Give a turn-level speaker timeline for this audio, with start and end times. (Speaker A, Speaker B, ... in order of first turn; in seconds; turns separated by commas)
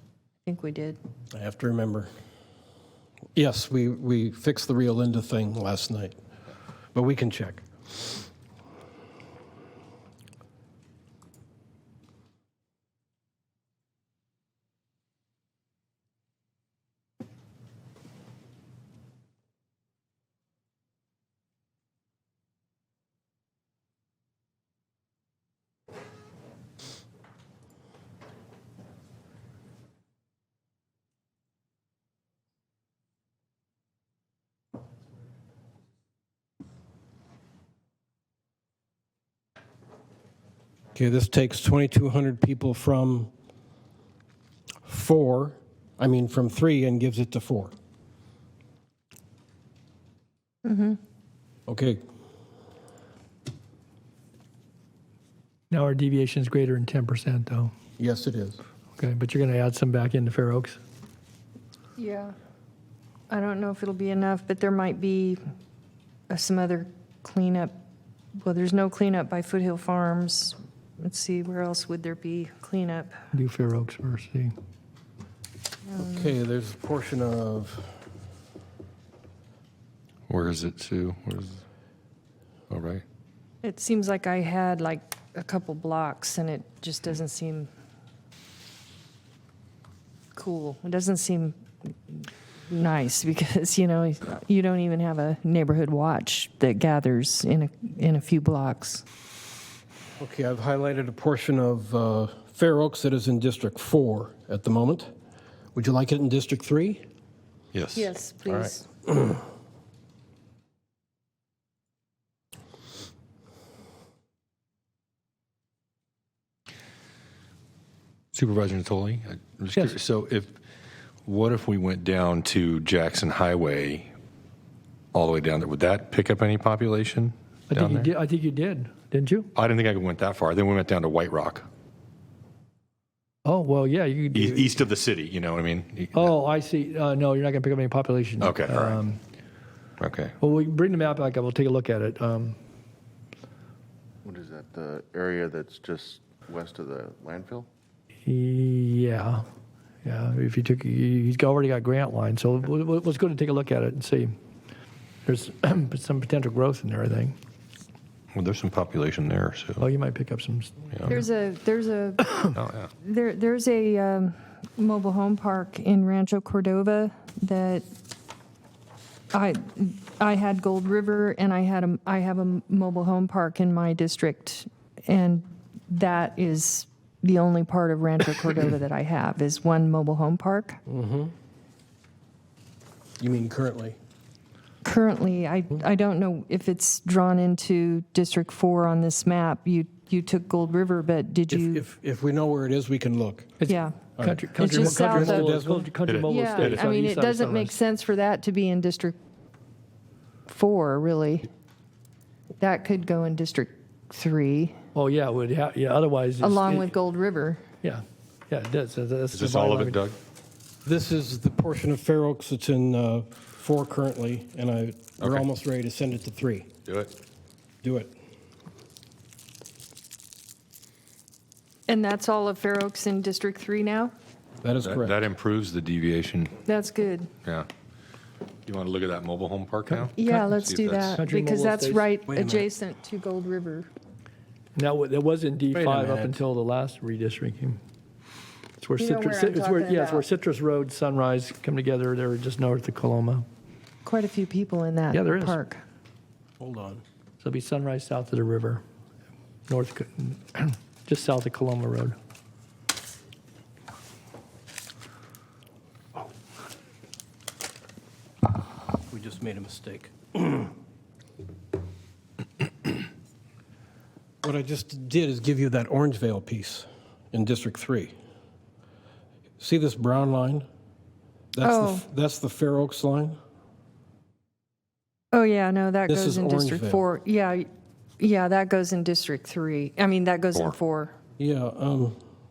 Speaker A: 0.5-1.0, Speaker B: 1.3-2.1, Speaker B: 3.4-6.1, Speaker B: 6.9-7.7, Speaker B: 40.9-43.3, Speaker B: 44.9-47.7, Speaker A: 50.6-51.0, Speaker B: 51.7-52.0, Speaker C: 55.7-57.7, Speaker B: 58.0-58.6, Speaker C: 59.0-60.8, Speaker A: 62.0-62.3, Speaker A: 63.3-65.4, Speaker A: 66.3-67.7, Speaker A: 68.4-73.2, Speaker C: 73.3-74.5, Speaker A: 75.9-76.3, Speaker B: 76.0-78.0, Speaker D: 80.3-81.6, Speaker D: 82.7-83.0, Speaker A: 83.6-87.7, Speaker A: 90.3-99.0, Speaker B: 100.2-105.1, Speaker B: 105.7-107.0, Speaker D: 107.7-108.1, Speaker A: 107.9-108.9, Speaker D: 118.3-120.5, Speaker D: 121.2-124.1, Speaker D: 125.1-128.1, Speaker C: 127.7-129.5, Speaker D: 129.5-131.7, Speaker C: 133.4-134.7, Speaker D: 134.3-136.3, Speaker C: 136.1-139.2, Speaker D: 138.4-139.0, Speaker D: 140.0-140.3, Speaker C: 140.4-142.6, Speaker E: 144.2-147.7, Speaker C: 148.2-149.4, Speaker C: 150.0-154.3, Speaker C: 155.2-157.3, Speaker D: 158.3-159.9, Speaker C: 159.8-161.1, Speaker A: 161.1-167.8, Speaker D: 162.5-162.9, Speaker A: 169.3-180.8, Speaker B: 180.9-181.3, Speaker B: 183.2-183.9, Speaker A: 184.8-191.8, Speaker B: 191.5-193.5, Speaker C: 193.6-197.8, Speaker A: 193.7-194.0, Speaker B: 194.2-195.9, Speaker A: 194.6-195.5, Speaker D: 196.0-196.9, Speaker A: 196.3-199.2, Speaker A: 200.5-201.5, Speaker A: 202.6-204.8, Speaker C: 204.9-206.9, Speaker A: 206.4-207.6, Speaker C: 207.8-210.0, Speaker D: 209.3-210.2, Speaker B: 210.8-216.7, Speaker D: 215.2-215.4, Speaker D: 216.8-217.1, Speaker B: 217.8-218.1, Speaker A: 221.9-224.1, Speaker B: 224.6-225.2, Speaker D: 224.8-226.5, Speaker A: 226.7-227.3, Speaker D: 228.7-231.2, Speaker C: 229.9-230.4, Speaker A: 230.2-233.9, Speaker C: 231.2-232.1, Speaker B: 232.3-232.7, Speaker C: 234.7-237.8, Speaker B: 235.7-236.4, Speaker C: 238.8-243.4, Speaker A: 239.0-240.3, Speaker A: 244.0-245.8, Speaker C: 245.1-245.6, Speaker B: 246.6-247.0, Speaker C: 247.4-248.8, Speaker C: 249.7-252.2, Speaker B: 259.1-260.7, Speaker B: 264.4-268.1, Speaker B: 269.6-270.6, Speaker B: 271.5-273.4, Speaker A: 271.6-272.1, Speaker A: 275.3-277.7, Speaker B: 276.1-277.0, Speaker A: 278.2-281.1, Speaker B: 281.4-282.1